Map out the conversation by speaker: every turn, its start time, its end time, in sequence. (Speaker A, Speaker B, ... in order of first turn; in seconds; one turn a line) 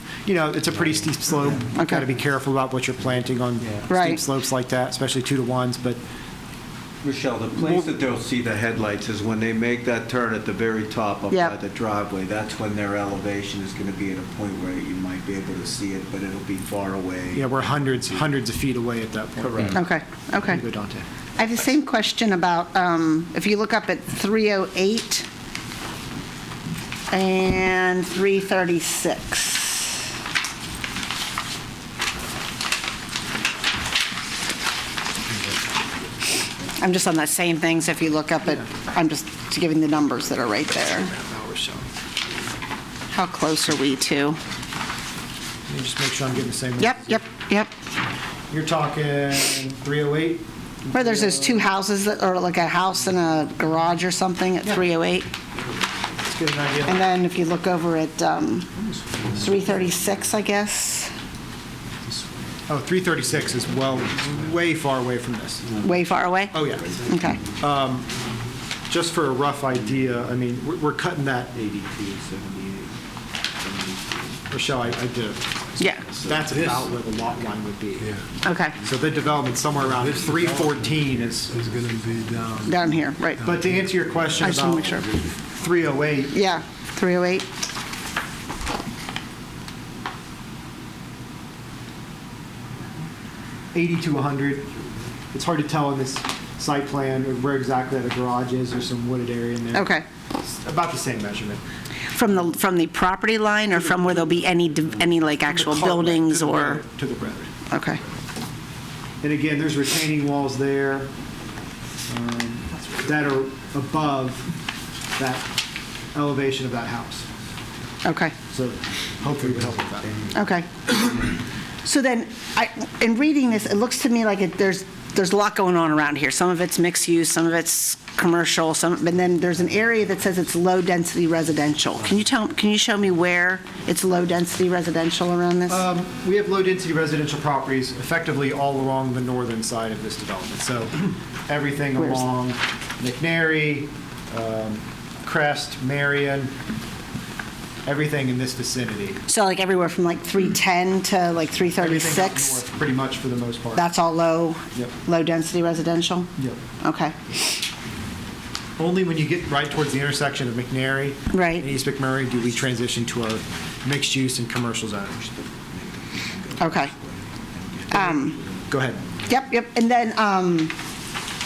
Speaker A: 0.2-6.0
Speaker B: 1.7-2.1
Speaker B: 3.9-4.2
Speaker C: 7.0-18.1
Speaker A: 7.5-7.9
Speaker A: 17.3-19.8
Speaker C: 19.4-19.8
Speaker B: 19.7-20.6
Speaker A: 20.4-21.0
Speaker B: 21.4-25.2
Speaker B: 27.1-30.0
Speaker B: 36.8-41.1
Speaker A: 40.9-41.9
Speaker B: 43.1-44.4
Speaker A: 45.7-47.2
Speaker B: 46.8-47.7
Speaker A: 48.5-51.7
Speaker B: 50.9-55.3
Speaker A: 56.2-57.0
Speaker B: 56.8-58.7
Speaker C: 59.2-59.5
Speaker B: 59.3-61.1
Speaker A: 62.7-65.6
Speaker C: 65.7-66.0
Speaker B: 65.8-67.4
Speaker A: 66.5-66.9
Speaker C: 66.5-67.4
Speaker A: 67.6-68.0
Speaker A: 68.9-71.5
Speaker C: 69.7-70.2
Speaker C: 71.5-73.0
Speaker C: 73.5-77.6
Speaker A: 74.5-75.5
Speaker A: 76.1-78.1
Speaker D: 76.5-76.8
Speaker D: 78.0-78.2
Speaker B: 78.4-78.7
Speaker A: 78.8-81.5
Speaker D: 79.8-83.9
Speaker C: 81.8-82.5
Speaker B: 82.7-83.5
Speaker A: 83.4-86.4
Speaker B: 84.4-85.1
Speaker B: 86.3-87.5
Speaker A: 93.7-94.7
Speaker A: 95.3-101.6
Speaker B: 99.7-100.0
Speaker B: 102.1-106.8
Speaker A: 105.5-107.5
Speaker B: 107.7-108.0
Speaker A: 109.2-111.1
Speaker A: 112.1-114.5
Speaker A: 115.2-115.5
Speaker A: 116.1-117.2
Speaker B: 118.0-118.3
Speaker A: 118.5-120.1
Speaker B: 120.3-121.2
Speaker B: 121.8-135.8
Speaker A: 135.7-146.5
Speaker A: 147.8-149.2
Speaker B: 149.3-152.6
Speaker A: 151.8-153.9
Speaker B: 153.7-157.6
Speaker A: 158.8-165.2
Speaker B: 161.3-161.7
Speaker C: 165.2-169.3
Speaker B: 166.6-166.9
Speaker B: 167.9-168.4
Speaker A: 168.7-169.0
Speaker B: 169.3-170.8